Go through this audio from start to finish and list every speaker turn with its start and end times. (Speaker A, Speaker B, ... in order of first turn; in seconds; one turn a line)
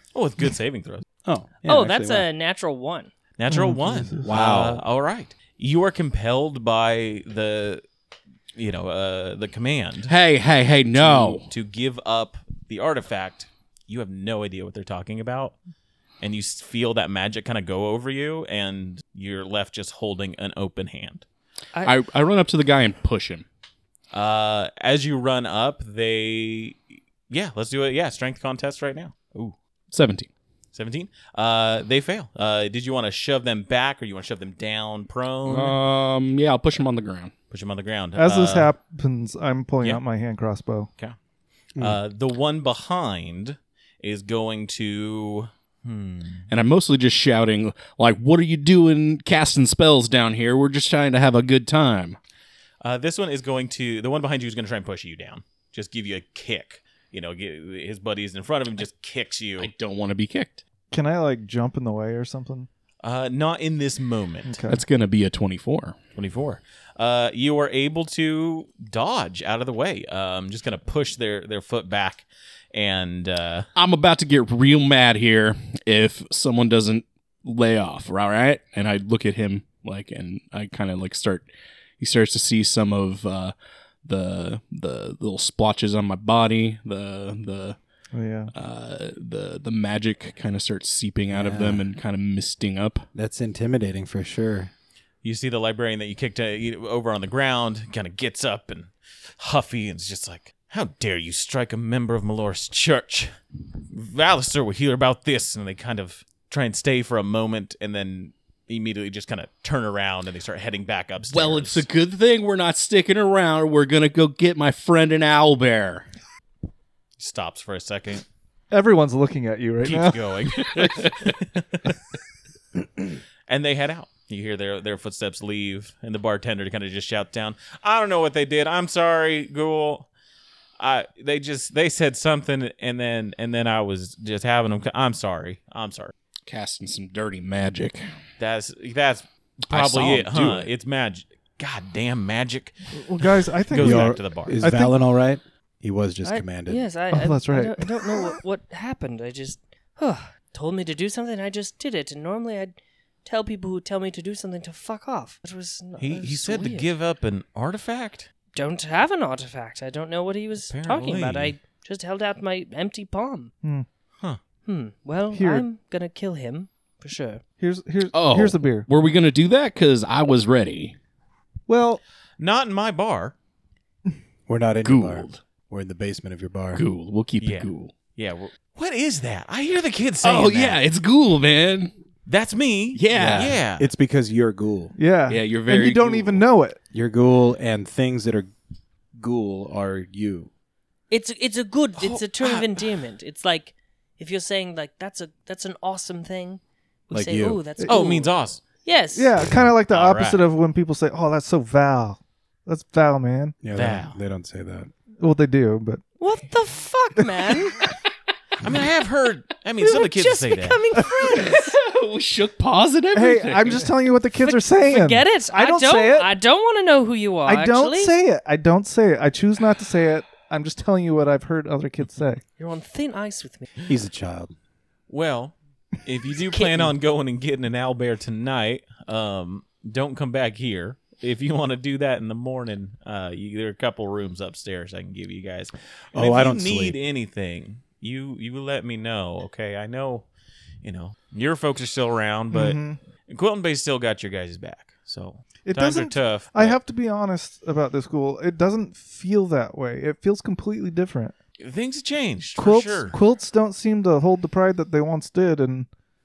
Speaker A: 0.1-1.1
Speaker B: 1.2-2.2
Speaker C: 1.6-3.1
Speaker A: 3.4-7.8
Speaker D: 3.5-4.3
Speaker B: 4.2-4.8
Speaker A: 8.6-10.1
Speaker E: 10.1-11.5
Speaker A: 10.9-15.6
Speaker A: 16.2-21.2
Speaker E: 21.8-23.4
Speaker A: 24.1-29.6
Speaker E: 29.9-30.3
Speaker A: 30.7-35.8
Speaker E: 35.5-37.3
Speaker A: 37.5-38.7
Speaker D: 38.2-40.9
Speaker A: 41.8-46.5
Speaker E: 46.5-52.2
Speaker A: 52.8-59.7
Speaker E: 59.6-60.6
Speaker D: 60.9-62.7
Speaker A: 63.0-64.6
Speaker D: 64.5-64.8
Speaker E: 64.7-66.0
Speaker A: 66.1-73.7
Speaker E: 73.8-81.5
Speaker E: 82.0-87.8
Speaker D: 88.1-88.5
Speaker E: 88.5-93.1
Speaker B: 91.3-91.9
Speaker B: 93.1-94.7
Speaker A: 95.2-103.3
Speaker A: 103.9-111.9
Speaker E: 111.3-116.1
Speaker A: 117.2-118.2
Speaker D: 118.7-120.3
Speaker A: 119.8-121.9
Speaker E: 120.8-121.1
Speaker A: 123.5-130.1
Speaker A: 130.8-136.1
Speaker E: 136.4-138.1
Speaker A: 138.4-144.6
Speaker E: 139.7-140.6
Speaker D: 142.9-144.9
Speaker B: 143.8-146.8
Speaker C: 146.2-156.9
Speaker D: 147.1-148.3
Speaker A: 156.0-158.3
Speaker C: 158.5-163.5
Speaker A: 160.7-161.5
Speaker C: 164.7-167.4
Speaker D: 165.3-165.6
Speaker D: 167.6-168.9
Speaker E: 168.1-170.9
Speaker D: 171.7-172.0
Speaker A: 172.4-173.3
Speaker B: 174.5-176.8
Speaker E: 174.8-175.4
Speaker E: 176.7-177.9
Speaker A: 177.4-180.8
Speaker E: 180.2-181.9
Speaker A: 182.3-183.9
Speaker E: 182.9-183.6
Speaker B: 183.1-184.9
Speaker D: 184.9-186.8
Speaker E: 185.3-186.4
Speaker B: 186.9-188.5
Speaker B: 189.1-190.5
Speaker C: 191.1-198.3
Speaker A: 192.0-192.8
Speaker B: 197.1-197.6
Speaker D: 197.8-198.1
Speaker A: 197.9-198.6
Speaker C: 198.8-199.3
Speaker D: 199.1-203.6
Speaker A: 199.4-200.4
Speaker B: 203.6-204.9
Speaker A: 203.7-204.2
Speaker D: 205.2-206.0
Speaker C: 206.2-207.8
Speaker A: 208.6-210.8
Speaker C: 209.8-211.8
Speaker E: 211.3-213.9
Speaker D: 213.1-216.3
Speaker C: 214.4-218.1
Speaker D: 217.4-222.4
Speaker C: 222.6-223.7
Speaker B: 223.8-224.5
Speaker A: 225.1-240.3
Speaker C: 226.5-226.9
Speaker B: 236.1-237.0
Speaker A: 240.8-246.8
Speaker D: 242.5-243.0
Speaker D: 245.6-251.3
Speaker A: 251.6-253.2
Speaker D: 252.6-255.9